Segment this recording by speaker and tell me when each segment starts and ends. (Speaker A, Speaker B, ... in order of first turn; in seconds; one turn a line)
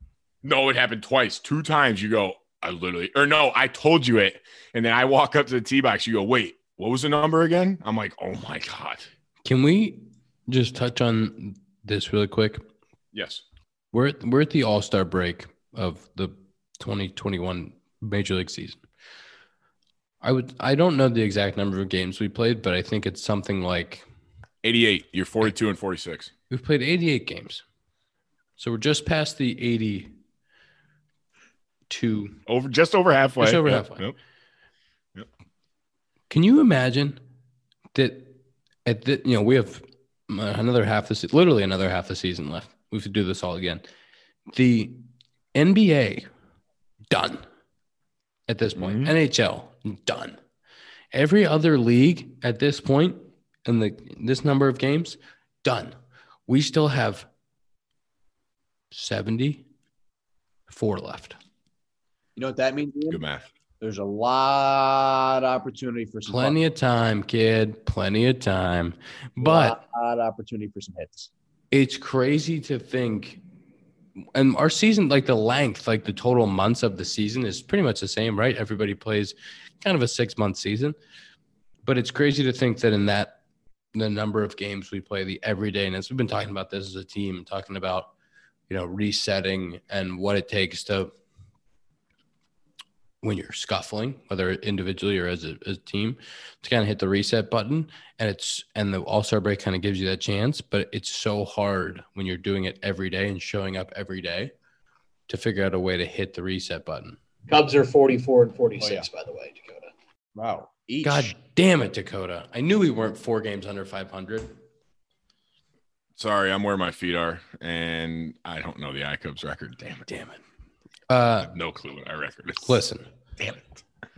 Speaker A: 0.4-9.1
Speaker B: 9.4-12.6
Speaker A: 13.1-13.4
Speaker B: 13.9-18.8
Speaker B: 20.2-24.0
Speaker A: 24.6-26.3
Speaker B: 26.5-27.6
Speaker B: 28.6-30.1
Speaker B: 31.9-32.4
Speaker A: 32.5-34.1
Speaker B: 33.4-34.1
Speaker B: 36.3-37.2
Speaker B: 37.9-43.8
Speaker B: 44.5-46.3
Speaker B: 47.1-47.4
Speaker B: 48.5-50.4
Speaker A: 48.8-49.1
Speaker B: 51.1-55.9
Speaker B: 56.5-57.3
Speaker B: 58.9-59.6
Speaker B: 60.7-61.4
Speaker C: 62.4-63.2
Speaker A: 63.1-63.5
Speaker C: 63.8-66.6
Speaker B: 66.3-69.8
Speaker C: 69.4-71.3
Speaker B: 71.7-73.4
Speaker B: 74.3-81.0
Speaker B: 81.8-83.4
Speaker B: 83.9-88.1
Speaker B: 88.7-91.1
Speaker B: 93.2-104.5
Speaker B: 105.3-107.2
Speaker D: 107.5-109.9
Speaker C: 108.8-109.1
Speaker C: 110.3-111.3
Speaker B: 111.0-114.5
Speaker A: 116.2-120.1
Speaker B: 120.1-120.4
Speaker B: 121.1-121.5
Speaker A: 121.4-122.8
Speaker B: 122.6-123.0